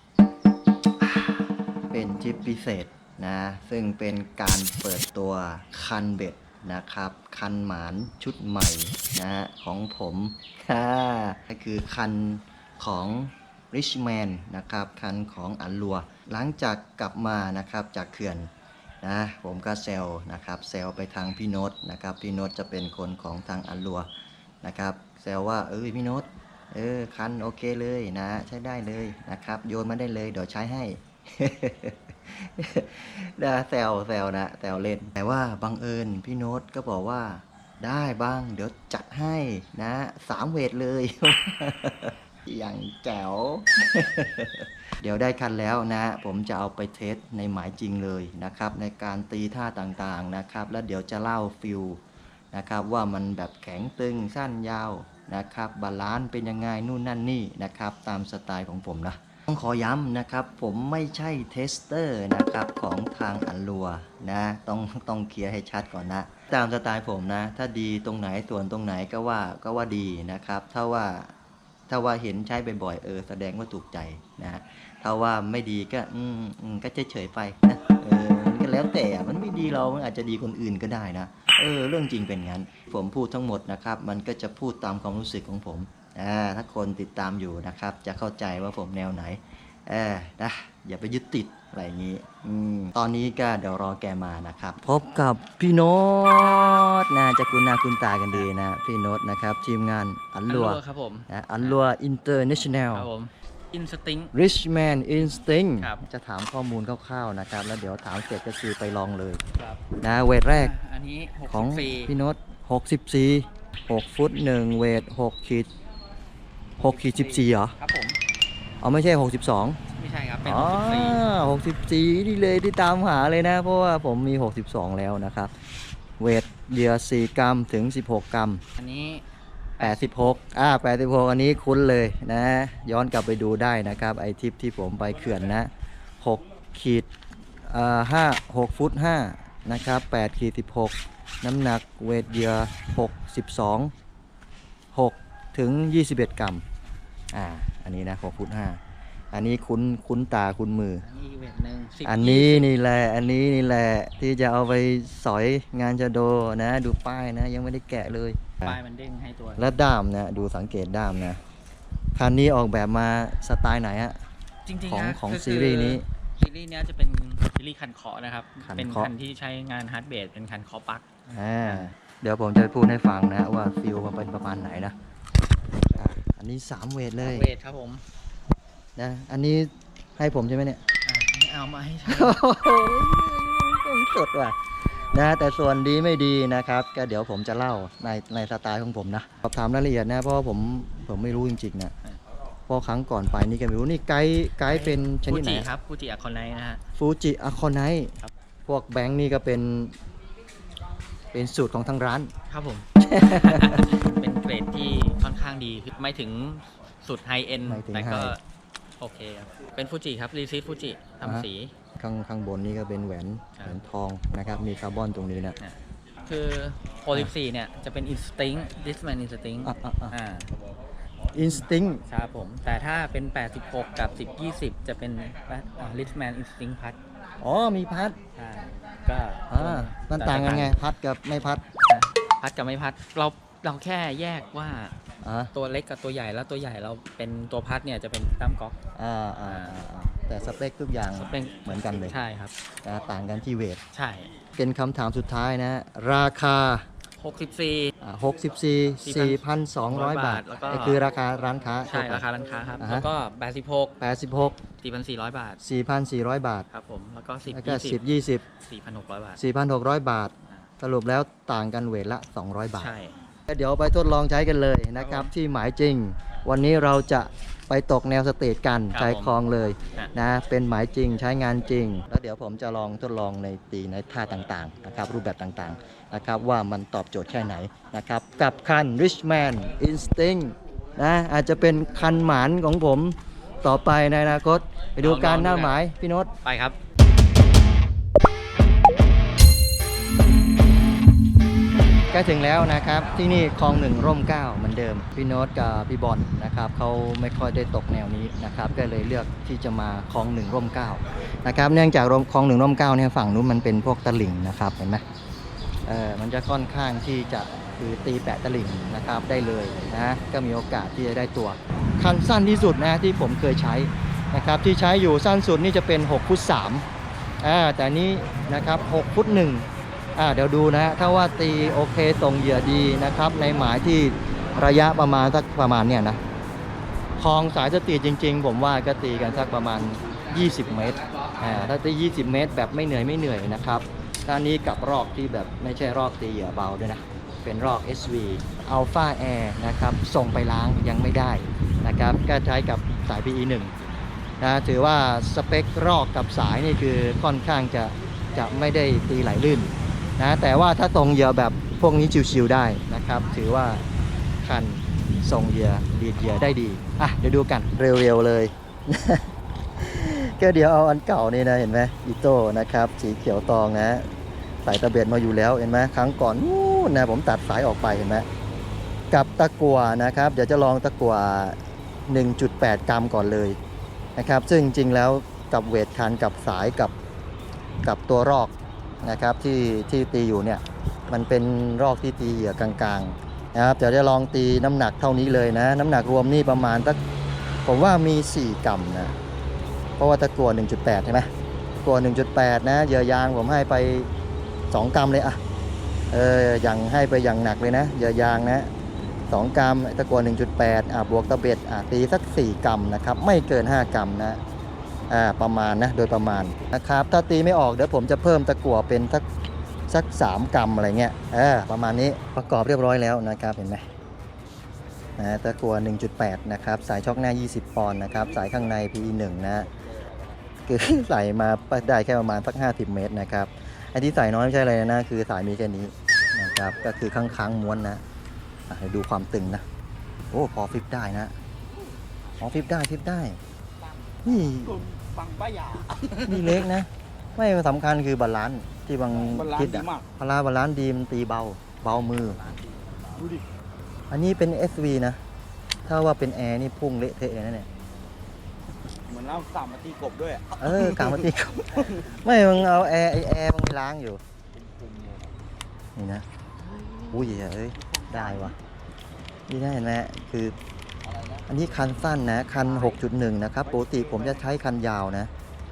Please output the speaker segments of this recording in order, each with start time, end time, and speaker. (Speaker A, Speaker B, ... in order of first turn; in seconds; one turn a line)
Speaker A: 1.0-18.5
Speaker A: 19.0-24.1
Speaker A: 24.6-52.0
Speaker A: 52.5-71.3
Speaker A: 71.9-103.1
Speaker B: 100.5-101.8
Speaker B: 102.9-104.3
Speaker A: 104.3-109.4
Speaker B: 109.6-109.8
Speaker A: 110.0-110.7
Speaker B: 110.5-112.1
Speaker A: 111.5-115.7
Speaker B: 116.8-118.2
Speaker A: 116.8-117.8
Speaker A: 118.8-119.8
Speaker B: 119.9-121.2
Speaker A: 120.5-125.5
Speaker A: 126.2-128.6
Speaker B: 128.8-129.2
Speaker B: 129.8-130.3
Speaker A: 129.8-137.1
Speaker A: 137.7-143.9
Speaker A: 144.9-146.6
Speaker A: 147.3-148.8
Speaker A: 149.3-151.1
Speaker B: 151.0-152.7
Speaker A: 152.1-158.8
Speaker B: 158.6-159.7
Speaker A: 159.6-161.4
Speaker A: 162.2-164.2
Speaker B: 164.7-171.1
Speaker A: 164.9-166.1
Speaker A: 168.6-169.1
Speaker A: 171.3-174.9
Speaker A: 176.0-177.5
Speaker B: 177.2-178.0
Speaker A: 179.0-180.8
Speaker B: 181.1-182.3
Speaker A: 182.1-191.9
Speaker A: 192.7-195.7
Speaker B: 194.7-196.8
Speaker A: 197.0-198.2
Speaker A: 198.7-200.0
Speaker A: 201.3-202.3
Speaker B: 202.5-208.4
Speaker A: 203.0-203.8
Speaker A: 207.7-208.4
Speaker B: 209.0-211.7
Speaker A: 212.0-215.6
Speaker B: 215.6-220.5
Speaker A: 219.6-220.2
Speaker A: 221.3-222.0
Speaker B: 222.1-227.0
Speaker A: 227.4-228.2
Speaker B: 228.4-230.8
Speaker A: 229.5-231.7
Speaker B: 231.9-235.0
Speaker A: 235.2-235.5
Speaker B: 235.5-238.8
Speaker A: 239.0-242.2
Speaker B: 239.5-239.7
Speaker B: 241.2-242.5
Speaker A: 242.8-243.8
Speaker B: 243.9-244.3
Speaker A: 244.6-246.9
Speaker B: 247.2-247.9
Speaker A: 248.0-252.2
Speaker B: 249.1-251.0
Speaker B: 251.9-254.0
Speaker A: 252.8-253.1
Speaker A: 254.0-254.6
Speaker B: 254.8-255.6
Speaker A: 255.6-256.7
Speaker B: 256.7-258.0
Speaker A: 257.5-258.4
Speaker B: 258.6-259.4
Speaker A: 259.4-262.9
Speaker B: 262.8-263.2
Speaker A: 263.5-286.3
Speaker B: 265.0-265.3
Speaker B: 268.9-269.3
Speaker B: 285.0-285.8
Speaker B: 286.4-286.8
Speaker A: 292.1-305.0
Speaker A: 305.9-316.9
Speaker A: 317.4-326.2
Speaker A: 327.2-343.8
Speaker B: 329.4-331.7
Speaker A: 344.4-353.8
Speaker A: 354.4-364.1
Speaker A: 364.6-368.3
Speaker A: 369.1-373.6
Speaker A: 374.2-376.9
Speaker A: 377.8-387.0
Speaker A: 387.6-389.1
Speaker A: 390.0-391.3
Speaker A: 391.8-394.1
Speaker A: 394.7-395.4
Speaker A: 396.1-398.7
Speaker A: 399.3-404.4
Speaker A: 405.1-409.2
Speaker A: 409.9-413.9
Speaker A: 415.2-419.7
Speaker A: 420.7-428.0
Speaker A: 428.7-429.6
Speaker A: 430.3-431.4
Speaker A: 432.4-433.4
Speaker C: 433.8-436.7
Speaker A: 434.2-434.8
Speaker A: 436.3-442.4
Speaker C: 439.1-440.1
Speaker B: 442.5-443.0
Speaker C: 443.1-443.5
Speaker A: 444.1-445.2
Speaker A: 445.9-447.7
Speaker C: 449.1-452.3
Speaker A: 450.6-454.2
Speaker C: 454.5-455.4
Speaker A: 456.0-456.2
Speaker C: 456.7-458.6
Speaker A: 457.1-458.6
Speaker A: 459.5-460.6
Speaker C: 461.0-461.9
Speaker A: 461.5-465.3
Speaker C: 462.5-463.0
Speaker C: 463.6-464.6